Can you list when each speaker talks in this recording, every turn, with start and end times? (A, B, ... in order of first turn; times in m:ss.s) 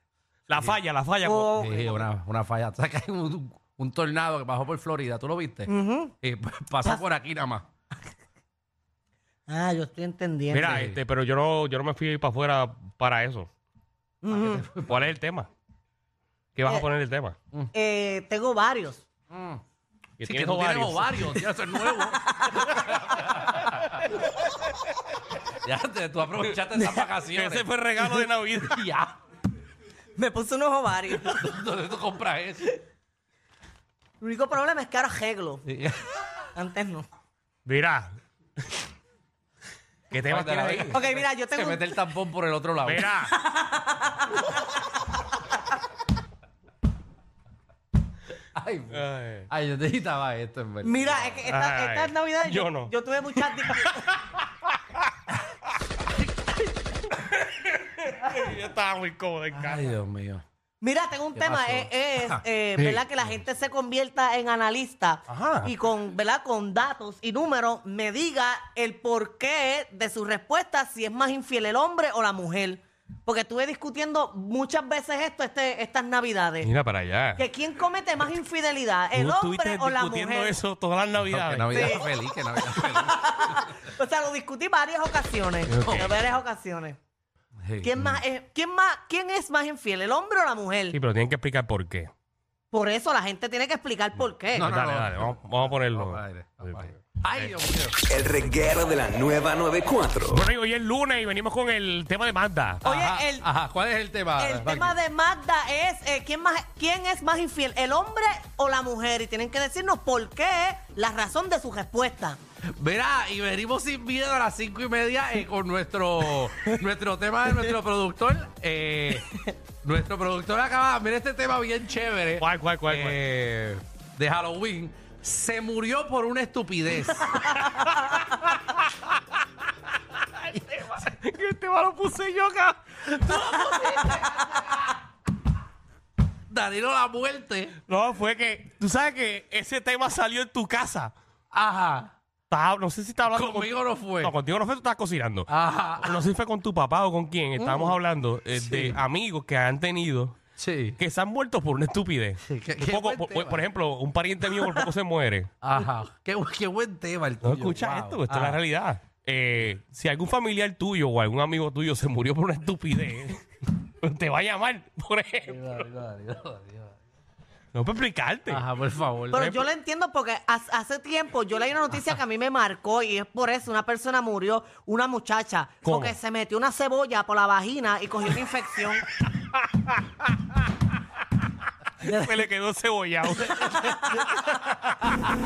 0:00.5-0:01.5 A
0:00.5-0:00.8 B
0:01.2-0:02.1 C
0:01.5-0:05.7 B
0:05.7-0:06.1 C
0:06.2-0:07.6 B
0:09.5-0:10.8 C
0:10.5-0:13.5 A
0:10.6-0:11.0 B
0:14.2-0:14.6 C
0:14.3-0:15.1 B
0:14.8-0:15.5 A
0:16.6-0:17.3 A
0:17.7-0:19.0 C
0:19.3-0:19.6 B
0:20.2-0:21.4 A
0:20.2-0:23.9 B
0:21.9-0:22.8 C
0:23.5-0:24.1 A
0:25.5-0:29.1 B
0:26.8-0:28.9 A
0:30.1-0:31.5 C
0:31.2-0:32.8 B
0:34.2-0:35.6 C
0:35.6-0:36.1 B
0:36.5-0:37.1 C
0:37.6-0:38.1 A
0:40.1-0:41.0 A
0:40.2-0:43.1 B
0:40.9-0:42.0 C
0:42.8-0:43.3 A
0:43.2-0:44.8 C
0:48.5-0:51.4 B
0:48.9-0:49.5 A
0:50.8-0:54.2 C
0:51.5-0:55.2 A
0:56.2-0:56.9 B
0:57.1-0:59.9 A
0:59.5-1:00.4 B
1:00.8-1:16.7 C
1:01.4-1:03.1 B
1:05.3-1:05.7 A
1:16.6-1:17.4 A
1:17.4-1:20.6 C
1:19.1-1:22.0 A
1:21.2-1:23.7 B
1:21.7-1:27.0 C
1:25.6-1:26.3 A
1:25.8-1:26.1 B
1:27.6-1:28.1 B
1:27.8-1:31.0 C
1:30.9-1:32.1 A
1:32.7-1:34.7 C
1:34.2-1:37.6 A
1:34.6-1:38.0 B
1:38.1-1:40.4 D
1:40.3-1:42.8 A
1:42.8-1:43.5 C
1:42.8-1:45.0 B
1:44.4-1:52.4 C
1:52.7-2:07.6 B
2:02.4-2:03.2 A
2:07.3-2:08.8 A
2:10.5-2:11.1 B
2:11.0-2:14.1 A
2:13.1-2:14.9 B
2:16.5-2:17.7 B
2:17.9-2:21.1 A
2:21.5-2:22.1 B
2:22.5-2:30.4 A
2:23.3-2:24.3 B
2:25.5-2:26.3 B
2:27.6-2:28.0 B
2:28.6-2:29.0 B
2:30.6-2:31.0 B
2:31.0-2:35.5 A
2:32.4-2:33.6 B
2:34.5-2:34.8 B
2:35.6-2:38.6 B
2:37.4-2:45.8 A
2:45.5-2:46.9 B
2:47.7-2:48.6 A
2:48.5-2:49.4 B
2:49.3-2:59.0 C
2:49.3-2:49.7 A
2:55.8-2:56.2 A
3:02.0-3:05.1 A
3:03.7-3:04.3 C